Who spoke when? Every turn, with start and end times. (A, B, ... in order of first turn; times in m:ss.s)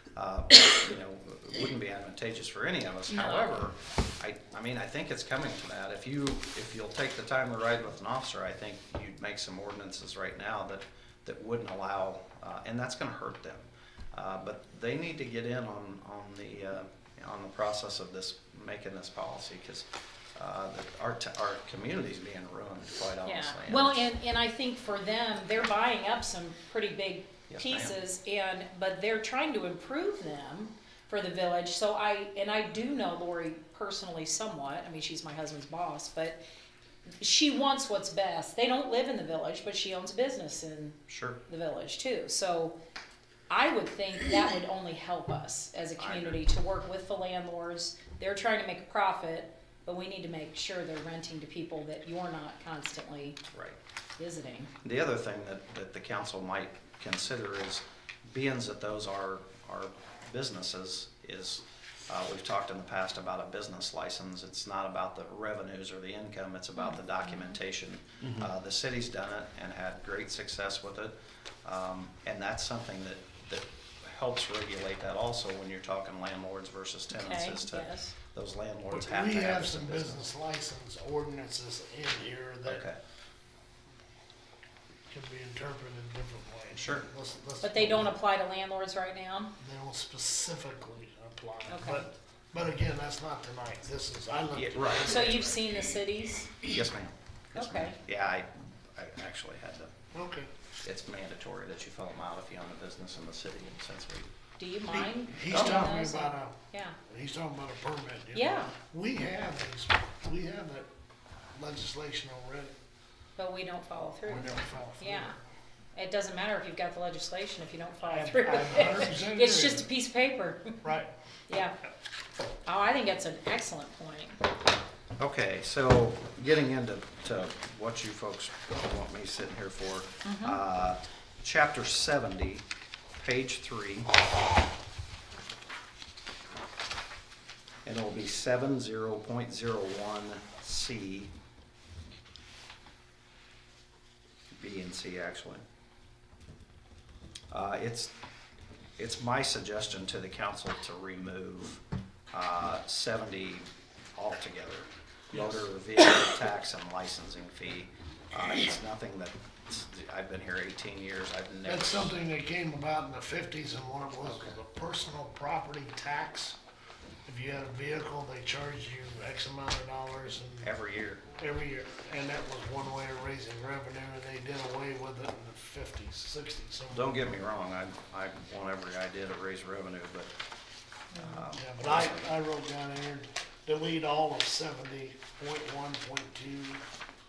0:00.1-0:24.1 A
0:03.1-0:03.6 B
0:23.2-0:36.4 B
0:27.5-0:28.0 A
0:37.2-0:42.8 B
0:41.1-0:41.4 A
0:43.5-0:53.4 B
0:46.0-0:46.4 A
0:53.5-0:53.8 A
0:54.2-0:54.7 B
0:54.8-1:20.3 A
1:06.8-1:07.6 B
1:17.1-1:18.1 B
1:18.9-1:22.8 C
1:22.6-1:23.0 A
1:25.1-1:28.1 C
1:26.7-1:27.1 A
1:27.6-1:29.5 B
1:29.6-1:35.6 C
1:31.7-1:32.1 B
1:34.5-1:35.6 A
1:35.0-1:36.6 B
1:36.6-1:39.9 A
1:37.5-1:38.0 B
1:40.1-1:40.5 C
1:40.8-1:44.3 A
1:44.6-1:47.0 B
1:44.9-1:50.9 C
1:45.5-1:45.8 A
1:48.3-1:48.7 B
1:51.5-1:52.7 C
1:53.4-1:55.4 B
1:54.2-1:55.4 C
1:55.9-2:00.8 B
1:58.1-1:59.9 C
2:00.8-2:01.1 C
2:01.5-2:01.8 B
2:02.6-2:04.4 B
2:05.2-2:14.1 A
2:10.2-2:10.6 B
2:17.8-2:21.3 A
2:24.6-2:25.6 A
2:27.5-2:28.1 A
2:29.0-2:42.1 A
2:41.6-2:46.6 C
2:44.2-2:44.6 A
2:47.2-2:50.7 C
2:50.6-2:51.2 A
2:51.4-2:57.2 C
2:56.9-3:00.3 A
3:01.1-3:01.4 B
3:01.1-3:02.3 A
3:01.5-3:06.8 C